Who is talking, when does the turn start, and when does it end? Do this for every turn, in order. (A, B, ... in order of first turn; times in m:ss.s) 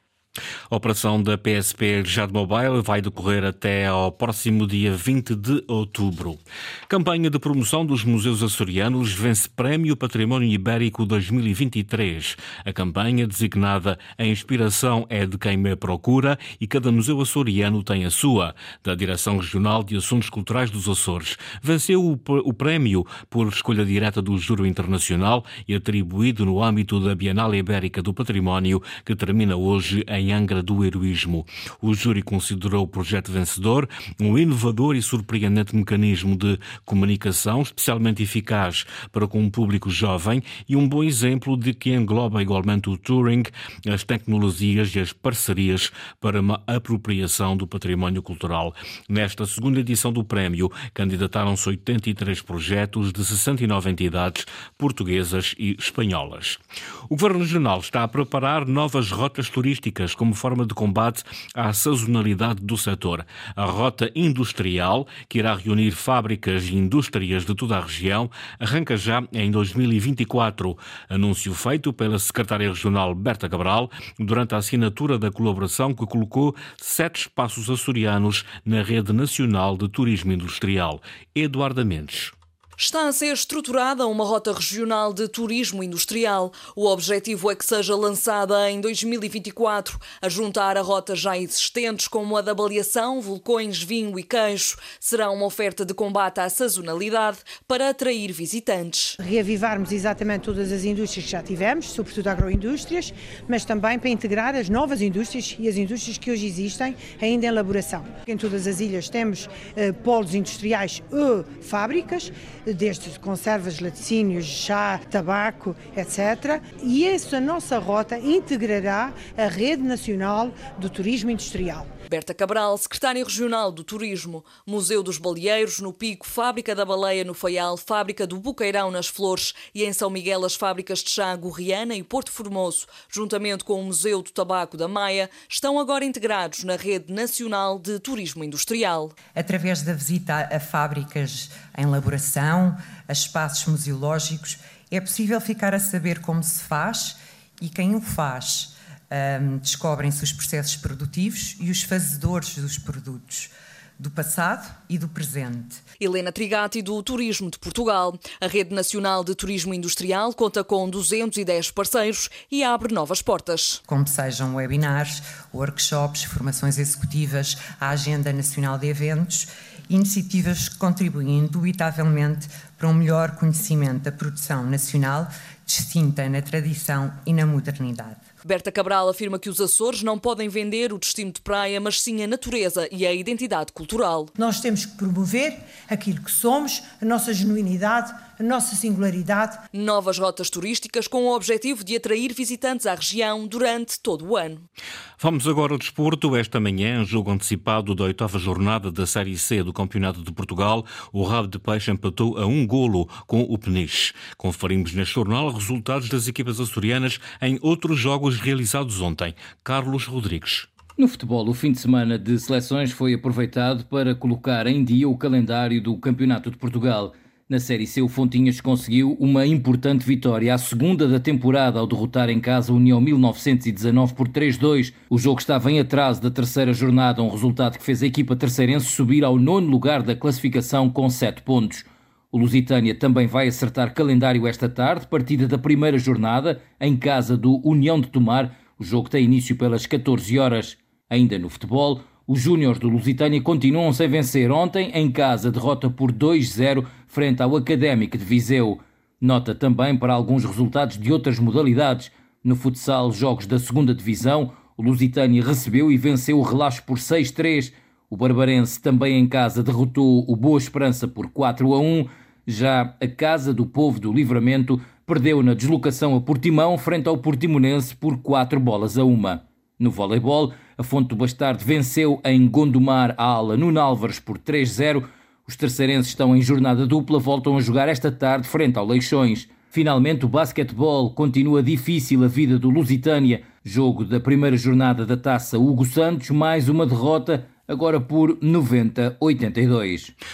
0:00.7-1:22.3 A
1:22.8-1:39.1 B
1:39.2-2:01.9 C
2:02.1-2:19.1 B
2:19.4-2:35.8 D
2:36.0-2:43.8 B
2:43.9-2:58.2 D
2:58.4-3:04.3 B
3:04.4-3:09.6 C
3:09.7-3:14.6 B
3:15.2-3:30.7 A
3:31.0-4:50.1 E